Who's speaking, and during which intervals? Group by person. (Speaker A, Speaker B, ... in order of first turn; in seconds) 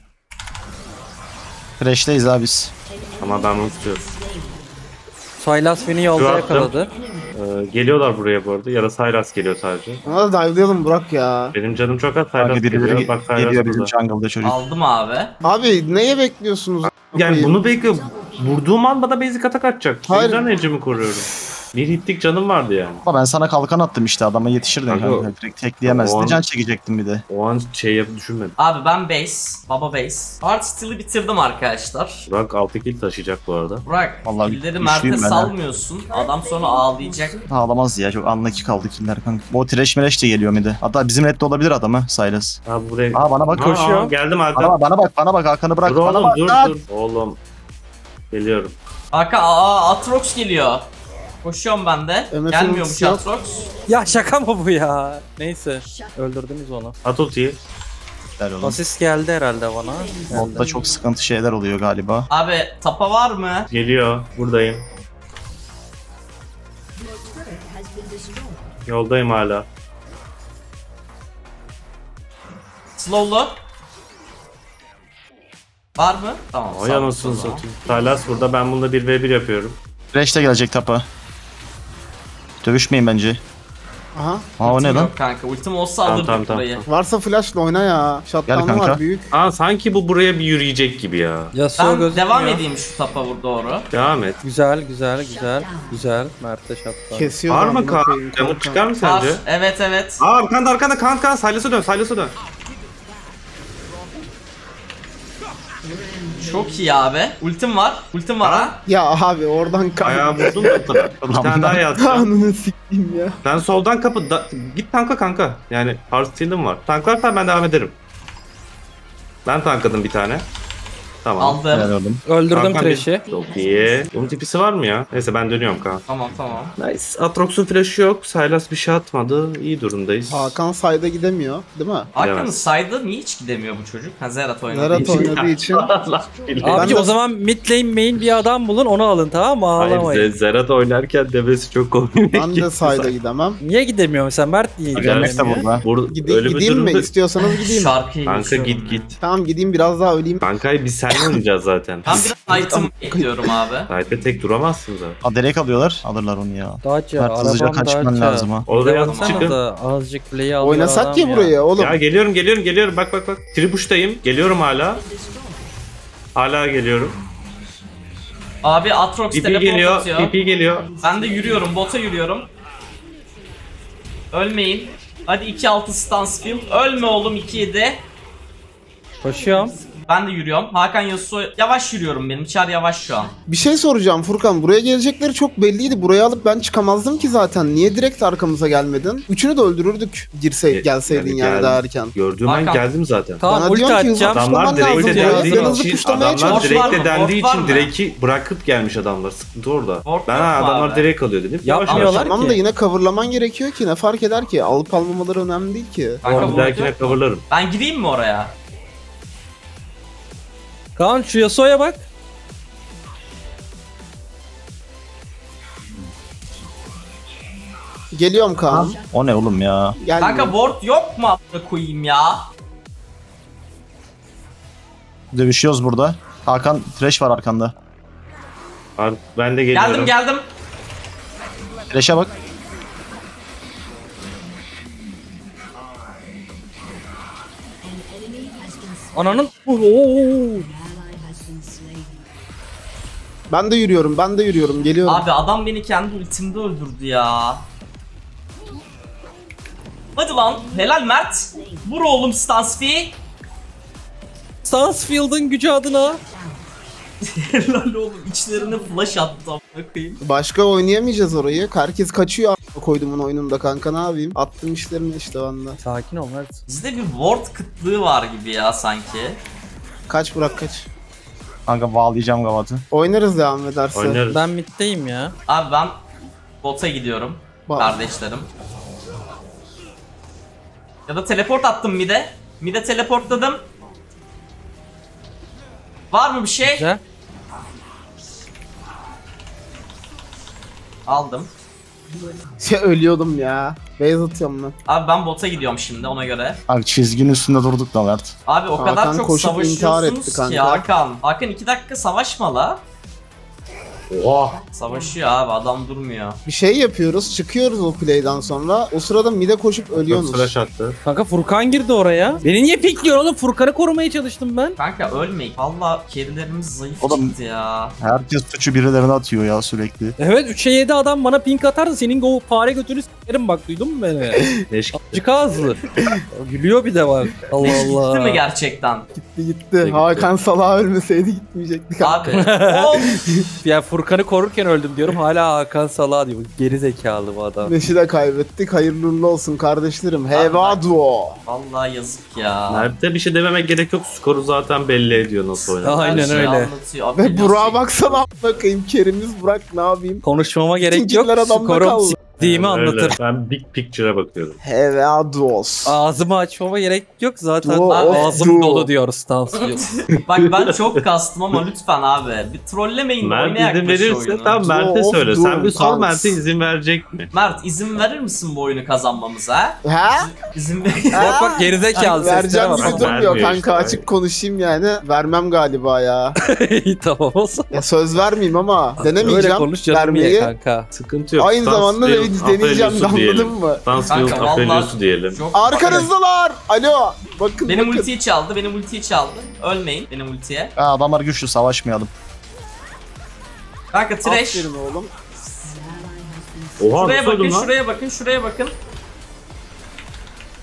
Speaker A: 1.8-2.7, 12.4-14.6, 23.1-27.2, 34.2-35.5, 37.5-42.6, 43.1-43.8, 44.5-46.8, 58.4-58.8, 60.3-62.3, 80.1-81.0, 82.6-83.4, 84.6-85.1, 88.5-89.0, 111.2-111.8, 121.7-122.2, 144.9-145.8, 155.2-158.7, 218.7-220.0, 225.3-227.7, 231.9-232.3, 271.7-272.8, 296.7-298.3, 317.0-317.3, 318.0-320.1, 390.8-392.1
Speaker B: 3.2-4.1, 6.1-6.8, 7.3-10.0, 11.5-13.9, 16.8-23.0, 24.9-25.3, 25.8-26.4, 27.3-28.6, 32.3-33.9, 42.7-44.8, 45.9-47.4, 48.3-48.8, 57.0-57.6, 63.7-64.8, 68.9-69.7, 76.7-79.8, 86.0-86.9, 89.3-91.5, 93.9-94.4, 97.5-99.4, 100.2-102.3, 108.4-108.7, 110.0-112.3, 113.4-118.0, 119.5-120.5, 121.2-121.6, 122.5-126.0, 126.8-130.6, 132.2-132.6, 134.9-137.0, 139.8-143.2, 144.9-147.1, 148.2-149.2, 150.4-152.2, 153.9-155.2, 158.7-159.6, 161.8-165.1, 166.3-167.2, 169.3-171.0, 190.7-193.4, 194.3-202.3, 206.2-207.4, 229.0-230.1, 273.9-274.4, 304.1-304.6, 310.0-311.0, 324.7-325.2, 329.8-330.3, 342.7-346.5, 352.4-354.6, 360.2-360.9, 363.2-367.3, 372.8-374.1, 380.9-385.4, 396.8-397.7
Speaker C: 5.4-6.9, 43.6-44.1, 53.9-56.9, 58.6-60.6, 91.5-92.6, 94.4-97.3, 122.3-123.3, 136.6-140.3, 143.6-145.7, 156.8-161.6, 179.2-179.8, 193.4-196.0, 201.6-202.6, 211.0-212.0, 239.1-240.7, 254.6-256.2, 265.8-266.6, 274.3-275.3, 286.6-287.0, 311.1-314.8, 320.2-325.8, 326.3-328.4, 332.3-337.7, 345.8-346.7, 350.2-353.2, 355.9-359.9, 371.1-373.4, 376.4-377.8, 379.0-380.9
Speaker D: 10.1-11.6, 15.4-17.6, 20.1-20.4, 52.3-53.3, 84.2-84.5, 86.9-89.3, 97.1-98.8, 108.9-111.0, 112.0-113.4, 130.3-132.1, 134.7-135.9, 136.7-137.2, 142.3-143.6, 146.1-147.9, 149.2-150.4, 152.1-153.5, 160.6-161.9, 183.5-192.1, 193.4-197.0, 202.0-206.2, 218.1-219.0, 220.0-220.6, 243.5-245.3, 260.2-265.8, 270.1-270.9, 272.9-274.2, 277.7-278.0, 292.6-294.8, 298.8-300.9, 306.5-310.5, 329.1-332.4, 337.6-341.4, 347.2-350.2, 350.8-352.2, 354.6-356.0, 357.6-358.9, 364.6-366.4, 369.8-370.3, 371.1-376.4, 377.7-380.5, 381.4-384.5, 385.5-388.1, 394.2-395.1
Speaker E: 14.4-15.3, 28.6-32.3, 33.9-37.5, 49.1-50.9, 51.4-53.7, 62.3-63.7, 73.0-73.6, 76.0-77.7, 84.6-86.9, 91.8-93.9, 99.0-100.2, 106.4-108.8, 121.4-121.9, 126.1-126.8, 132.2-135.4, 147.4-149.2, 152.1-153.9, 159.1-159.5, 168.6-170.3, 171.0-172.5, 174.3-178.0, 180.1-183.3, 192.5-192.8, 196.4-197.9, 200.1-201.1, 201.9-202.3, 206.2-208.6, 220.2-222.5, 229.7-230.4, 245.1-247.7, 250.2-253.2, 257.2-260.2, 266.7-269.4, 275.5-276.0, 276.6-278.5, 281.1-283.6, 286.1-286.9, 291.1-291.5, 294.9-296.6, 298.5-302.8, 304.7-306.4, 314.8-318.0, 327.6-329.1, 332.0-333.2, 340.3-340.8, 341.5-342.9, 346.0-348.2, 357.9-358.3, 359.5-364.6, 367.3-371.4, 384.1-386.1, 387.7-390.7, 393.9-394.7, 396.9-398.7